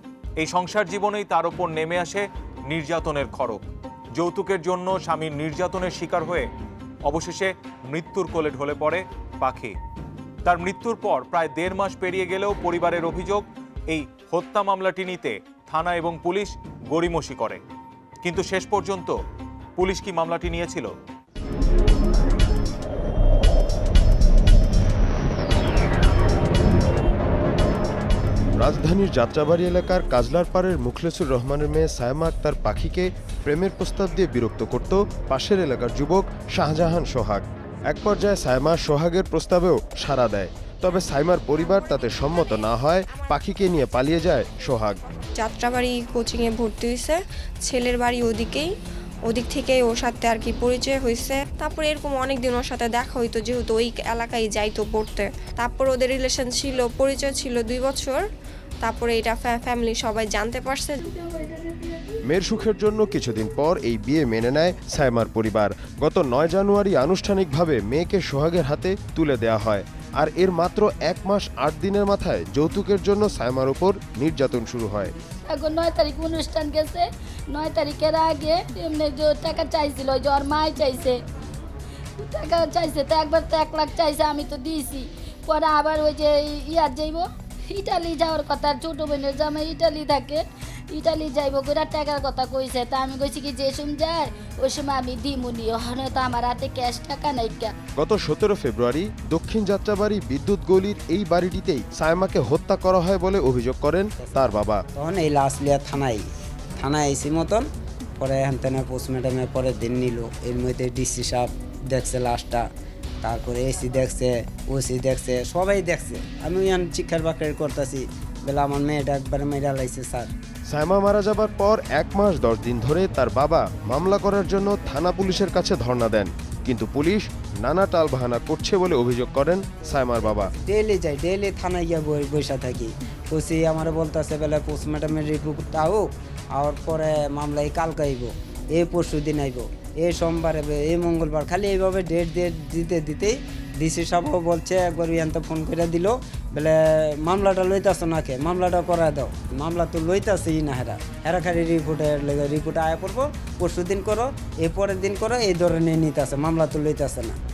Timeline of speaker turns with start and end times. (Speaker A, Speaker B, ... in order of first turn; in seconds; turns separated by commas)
Speaker A: 0.4-6.5, Speaker A: 7.1-9.8, Speaker A: 10.4-17.6, Speaker A: 18.2-19.1, Speaker A: 19.8-20.9, Speaker B: 28.6-45.0, Speaker C: 41.7-42.8, Speaker C: 45.4-48.7, Speaker C: 49.3-58.2, Speaker C: 58.8-61.3, Speaker B: 62.3-75.1, Speaker D: 75.5-81.2, Speaker D: 82.2-97.7, Speaker B: 98.0-104.8, Speaker E: 104.2-107.7, Speaker E: 108.2-112.6, Speaker E: 113.2-120.3, Speaker B: 120.7-130.5, Speaker E: 130.0-157.3